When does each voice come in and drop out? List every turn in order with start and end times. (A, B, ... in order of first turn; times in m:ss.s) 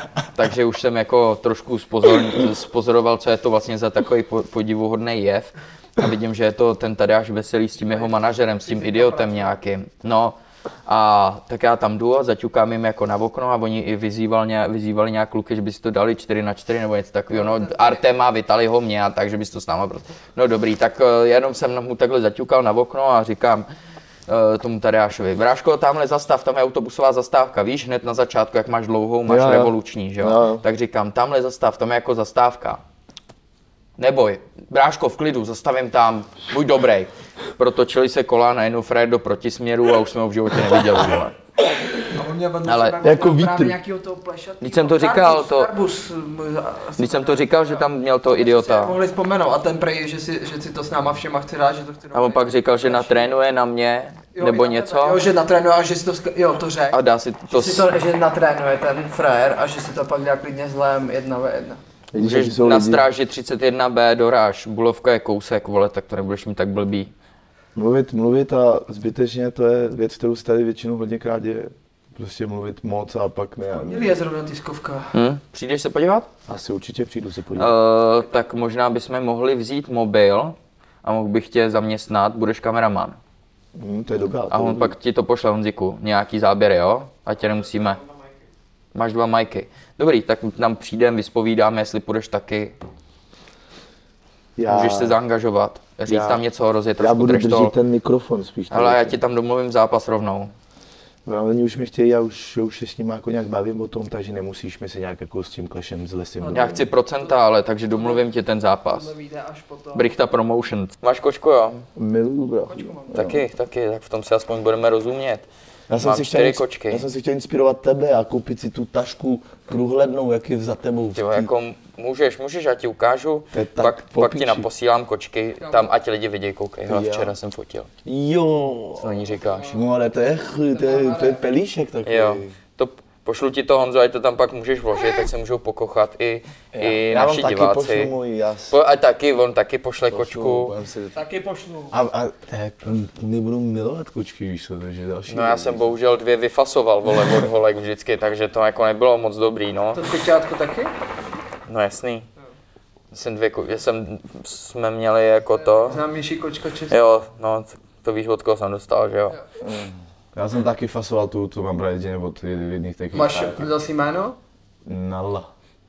0:00.2-0:23.7 A
0:07.8-0:09.6 B
0:17.3-0:18.0 B
0:24.3-0:32.8 A
0:29.3-0:30.6 C
0:34.0-0:41.3 A
0:42.0-0:53.3 B
0:42.6-0:43.0 A
0:43.0-0:43.8 C
0:44.6-0:45.7 A
0:47.0-0:49.0 A
0:52.1-0:55.2 A
0:54.3-1:01.8 B
0:56.9-0:57.9 A
1:02.1-1:03.0 C
1:02.2-1:07.1 A
1:07.7-1:14.0 C
1:13.7-1:15.1 B
1:15.1-1:16.3 A
1:16.5-1:17.7 C
1:17.6-1:23.2 A
1:23.7-1:24.9 C
1:24.5-1:28.0 A
1:27.4-1:28.4 B
1:28.9-1:32.8 A
1:34.6-1:35.2 C
1:34.6-1:37.7 A
1:36.0-1:36.4 C
1:37.0-1:39.2 C
1:38.7-1:40.5 A
1:41.2-1:46.8 C
1:46.4-1:47.4 B
1:46.5-1:49.1 A
1:47.9-1:48.2 B
1:48.8-1:50.1 B
1:49.9-1:51.8 A
1:51.9-1:53.4 C
1:52.6-1:53.3 B
1:53.1-1:55.4 A
1:55.9-2:01.5 C
1:56.0-1:57.0 A
2:01.1-2:07.9 A
2:03.5-2:04.7 C
2:05.6-2:05.9 B
2:06.9-2:07.3 C
2:08.0-2:09.1 C
2:09.0-2:09.7 A
2:09.3-2:09.8 B
2:09.7-2:12.5 C
2:10.7-2:11.5 B
2:12.0-2:18.1 A
2:16.7-2:18.8 C
2:18.7-2:20.7 A
2:20.1-2:21.2 C
2:21.1-2:22.0 B
2:21.9-2:25.9 C
2:25.3-2:30.0 A
2:29.9-2:30.9 B
2:31.7-2:32.3 A
2:33.1-2:36.0 A
2:35.6-2:37.0 B
2:36.9-2:39.4 A
2:39.6-2:43.7 C
2:43.1-2:44.4 B
2:44.8-2:45.5 C